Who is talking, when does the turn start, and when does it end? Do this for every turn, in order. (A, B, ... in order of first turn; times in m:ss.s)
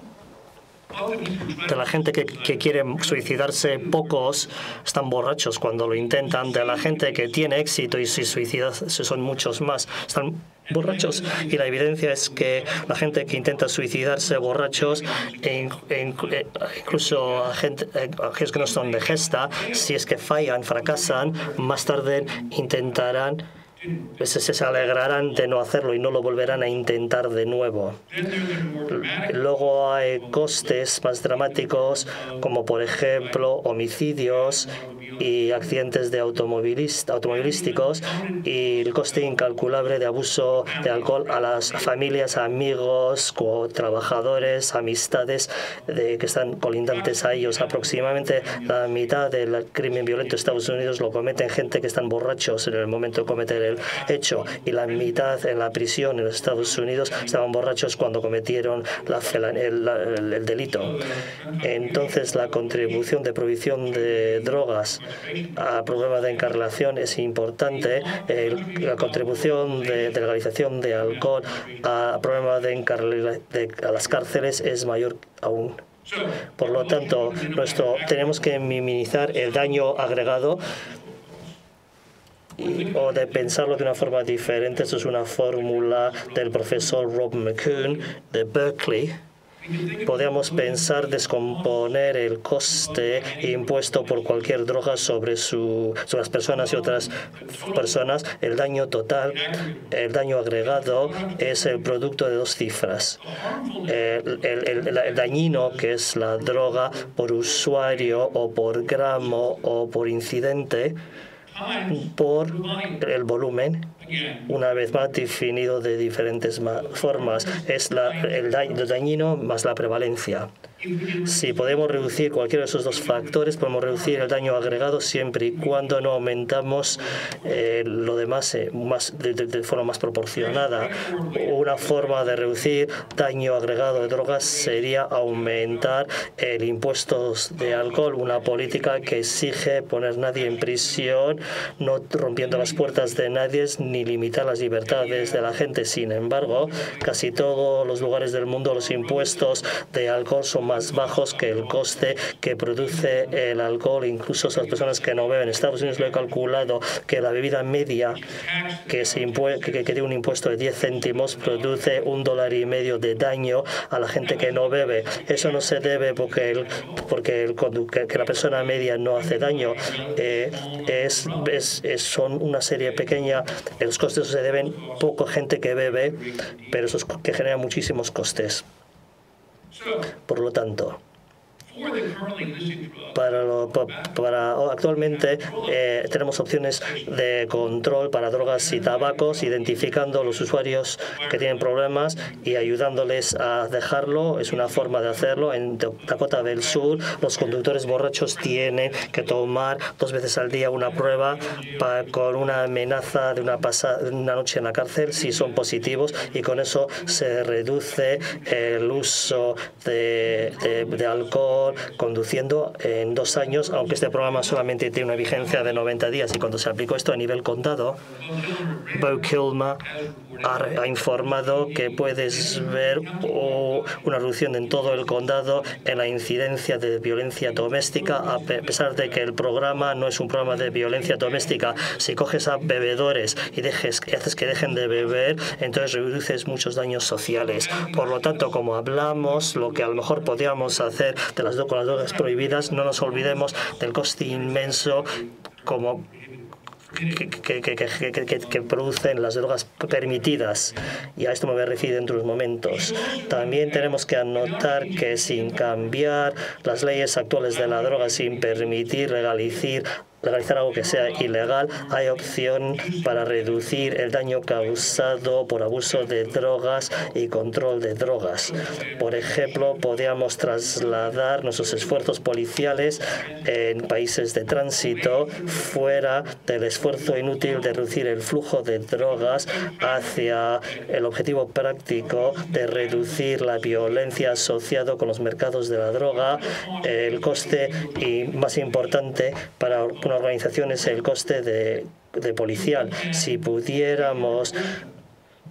0:01.5-0:23.4 A
0:24.2-0:28.0 A
0:28.9-1:01.0 A
1:01.6-1:15.8 A
1:16.6-1:20.6 A
1:22.6-1:29.2 A
1:30.0-1:43.2 A
1:43.8-1:51.0 A
1:51.8-1:53.9 A
1:54.5-2:00.5 A
2:01.2-2:38.2 A
2:38.9-2:58.6 A
3:00.2-3:01.0 A
3:03.1-3:38.0 A
3:38.9-3:39.9 A
3:40.4-4:05.1 A
4:05.6-4:06.1 A
4:07.0-4:54.6 A